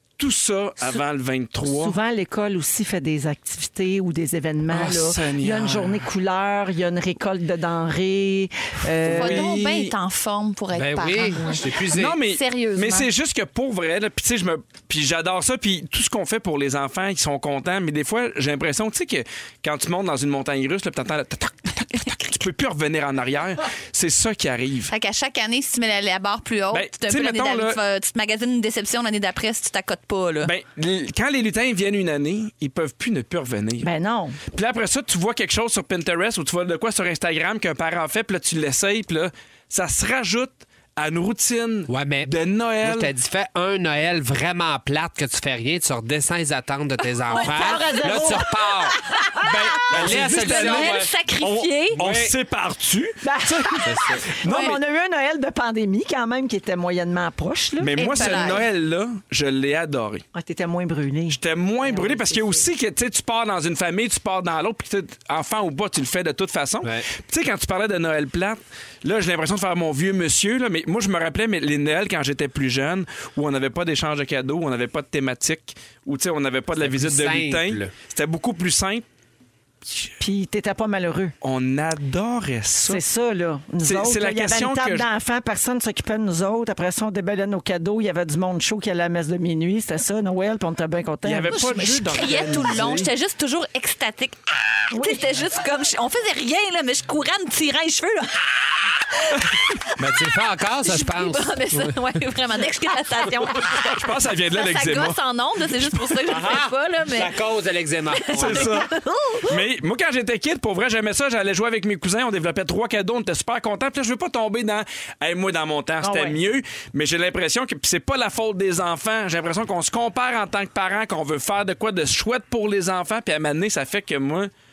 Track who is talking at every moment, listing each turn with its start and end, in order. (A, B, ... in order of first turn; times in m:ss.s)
0:00.2-0:02.0 A
0:01.7-0:09.5 B
0:04.7-0:06.0 A
0:09.0-0:10.0 A
0:09.1-0:11.6 C
0:10.7-0:12.2 D
0:11.9-0:24.9 A
0:12.1-0:13.1 C
0:24.9-0:30.5 C
0:26.7-0:27.8 A
0:30.4-0:33.9 A
0:33.8-0:34.4 B
0:34.5-0:43.1 A
0:41.9-0:49.0 D
0:47.3-0:48.1 C
0:47.3-0:48.5 B
0:49.2-0:49.5 C
0:49.4-0:54.8 A
0:49.8-0:51.1 D
0:50.0-0:52.0 C
0:52.0-0:52.4 D
0:53.2-0:58.6 B
0:53.8-0:54.3 D
0:54.4-0:54.8 C
0:57.8-1:00.2 A
0:58.0-0:58.6 C
1:00.3-1:02.7 B
1:01.3-1:19.0 A
1:06.8-1:07.1 D
1:16.8-1:17.9 D
1:20.2-1:21.4 B
1:21.4-1:23.0 A
1:22.8-1:32.3 B
1:23.8-1:25.1 A
1:31.2-1:33.1 A
1:31.5-1:39.5 C
1:34.9-1:35.2 B
1:40.0-1:42.0 D
1:40.8-1:47.3 C
1:43.6-1:45.2 A
1:46.2-1:48.8 D
1:48.1-1:49.6 C
1:48.3-1:48.9 A
1:49.4-2:04.5 A
1:56.0-1:56.4 B